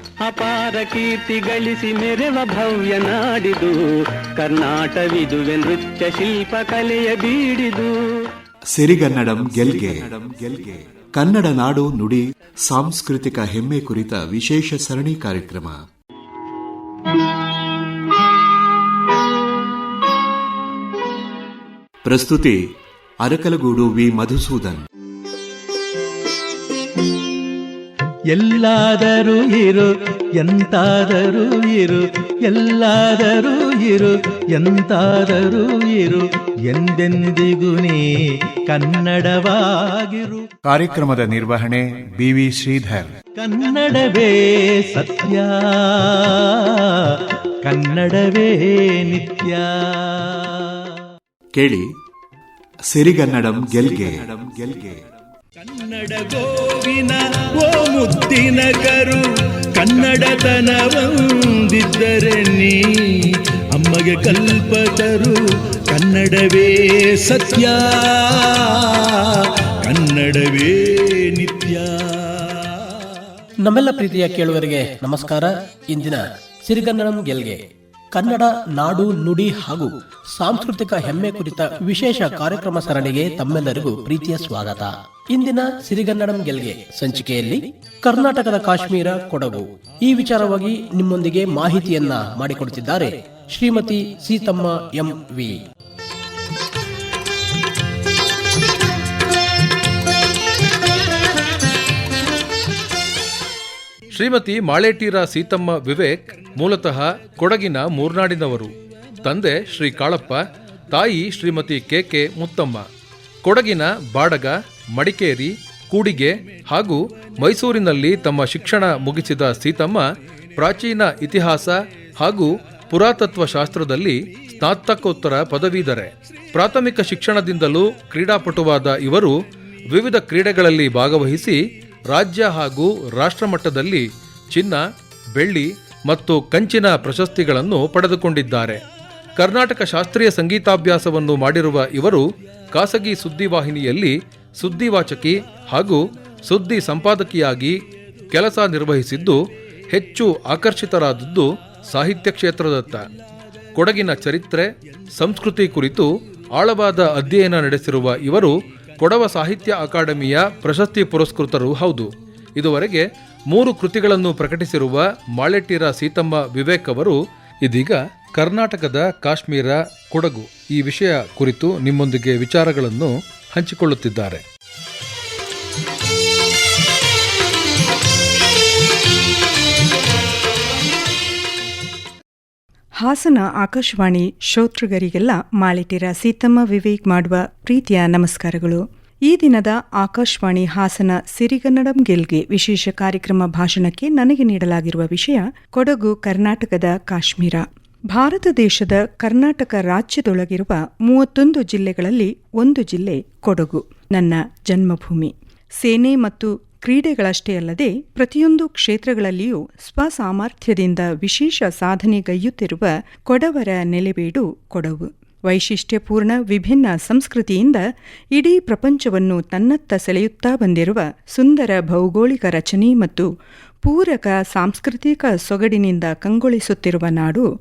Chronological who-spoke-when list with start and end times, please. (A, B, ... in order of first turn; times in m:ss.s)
0:00.2-0:03.8 A
0:04.4-0:07.9 A
0:08.7-0:15.8 B
0:22.0-0:22.6 B
0:23.2-0:24.8 B
0:28.3-0:40.5 C
0:40.6-0:43.1 D
0:43.4-0:50.7 C
0:51.6-0:51.9 B
0:52.9-0:55.0 B
0:55.6-1:12.6 C
1:13.6-1:17.6 E
1:18.1-1:35.6 E
1:44.1-1:52.9 F
1:53.4-2:00.0 F
2:00.6-2:09.4 F
2:09.9-2:14.8 F
2:15.3-2:18.8 F
2:19.4-2:27.8 F
2:28.3-2:29.4 F
2:29.9-2:33.1 F
2:33.8-2:54.4 F
3:03.0-3:43.3 G
3:43.8-3:47.5 G